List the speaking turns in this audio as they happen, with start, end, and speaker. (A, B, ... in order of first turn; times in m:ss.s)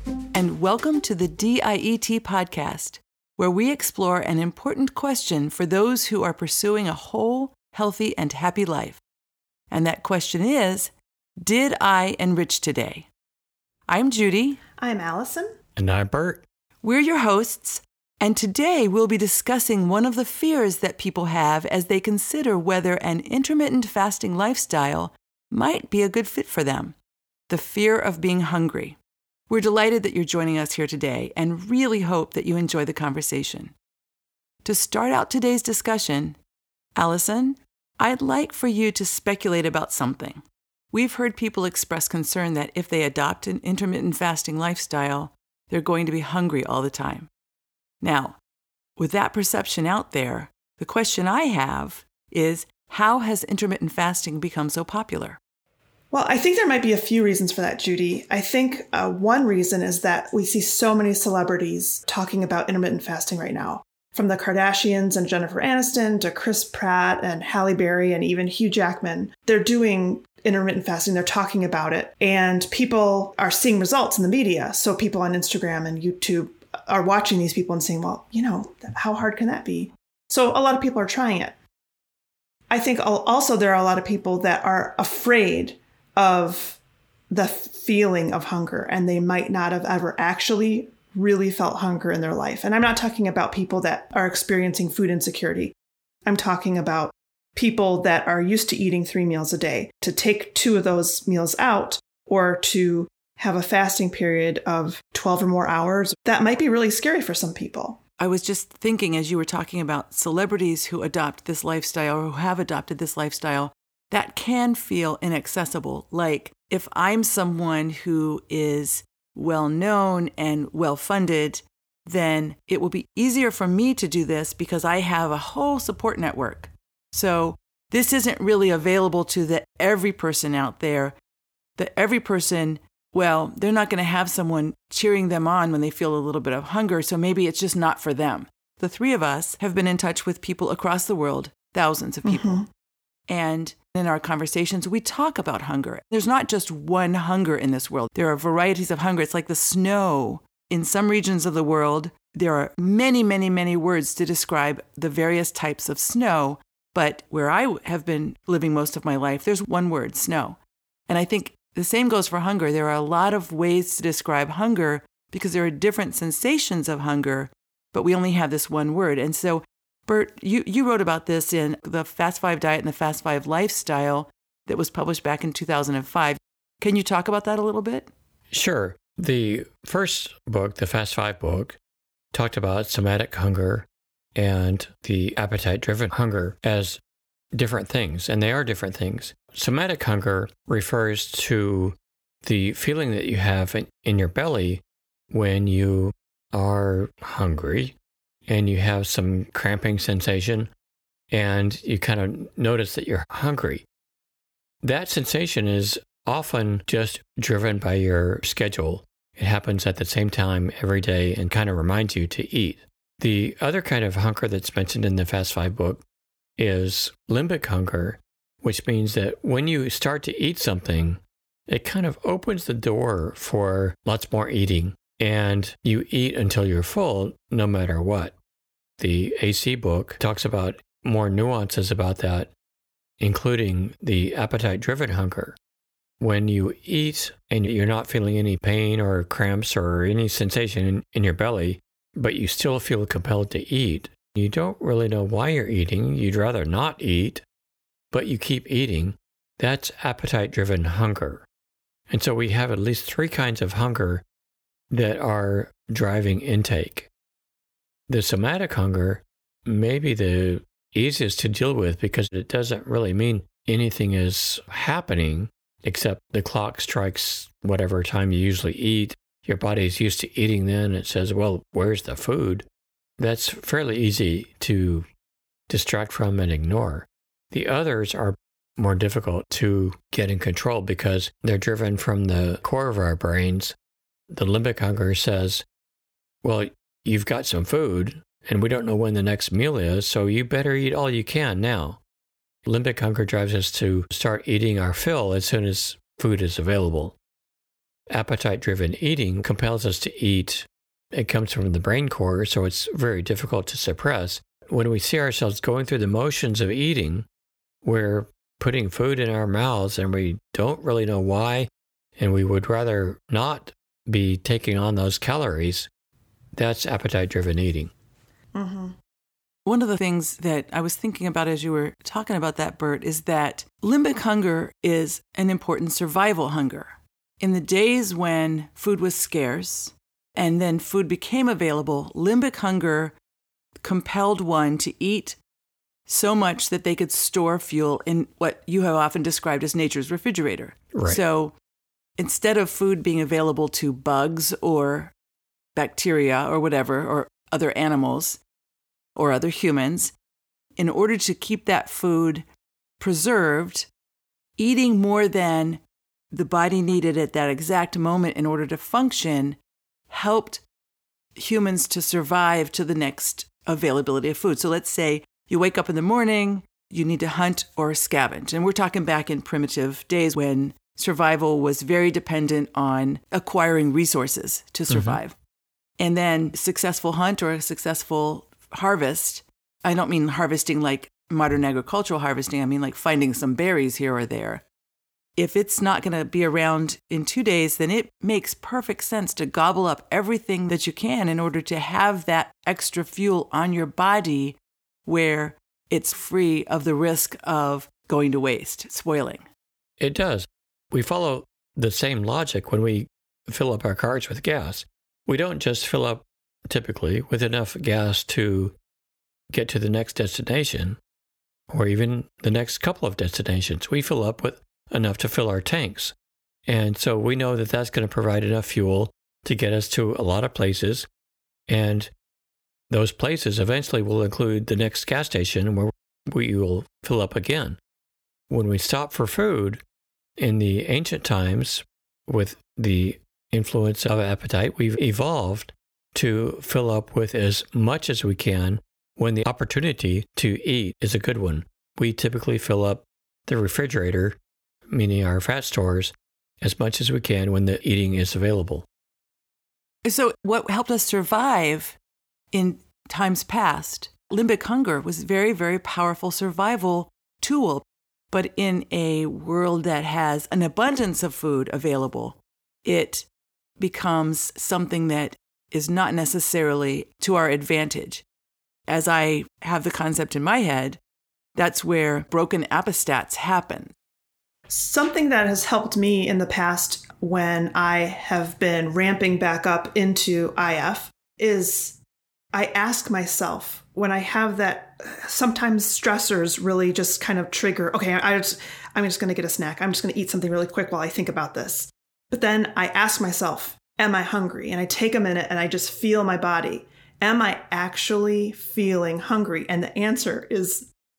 0:00.3-0:09.0 A
0:09.7-0:13.1 A
0:13.9-0:14.6 A
0:14.8-0:15.6 B
0:15.8-0:16.4 C
0:16.8-0:27.0 A
0:27.5-0:29.0 A
0:29.5-0:33.7 A
0:34.6-0:36.4 A
0:37.0-0:47.3 A
0:48.0-0:48.4 A
0:49.0-0:55.4 A
0:56.1-1:21.5 B
1:22.7-1:26.8 B
1:27.3-1:35.7 B
1:36.2-1:48.0 B
1:48.2-2:11.2 A
2:11.8-2:22.6 A
2:22.2-2:22.7 B
2:23.3-2:40.6 A
2:41.1-2:58.1 A
2:58.5-3:01.8 C
3:02.3-3:07.0 C
3:07.5-3:18.0 C
3:18.5-3:20.7 C
3:21.3-3:23.8 C
3:24.8-3:36.0 C
3:36.6-3:48.3 C
3:49.0-3:52.5 C
3:53.2-3:55.6 C
3:56.2-4:07.4 C
4:08.1-4:11.5 C
4:12.1-4:14.2 C
4:14.9-4:17.1 C
4:18.1-4:32.6 C
4:33.2-4:35.1 C
4:35.7-4:43.8 C
4:44.3-4:45.6 C
4:46.4-4:52.0 C
4:52.6-4:57.1 C
4:58.1-5:07.2 C
5:07.8-5:15.9 C
5:16.5-5:17.9 C
5:18.5-5:19.0 B
5:19.6-5:33.1 A
5:33.8-5:35.4 A
5:36.1-5:41.6 A
5:40.9-5:41.2 C
5:42.2-5:45.1 A
5:45.8-5:48.4 A
5:49.2-5:50.1 A
5:50.8-5:52.4 A
5:53.0-5:53.9 A
5:54.6-5:59.6 A
6:00.1-6:00.6 A
6:01.4-6:15.4 A
6:14.9-6:15.2 C
6:16.0-6:24.6 A
6:25.4-6:39.5 A
6:40.0-6:48.8 C
6:49.5-6:51.0 C
6:51.7-6:56.1 C
6:56.6-7:01.1 C
7:01.7-7:02.1 C
7:02.9-7:07.8 C
7:08.5-7:09.8 C
7:10.4-7:24.4 C
7:24.9-7:28.8 C
7:30.0-7:32.0 A
7:32.5-7:43.3 A
7:43.8-7:48.2 A
7:48.9-7:51.0 A
7:51.6-7:53.9 A
7:54.7-8:02.0 B
8:02.5-8:20.9 B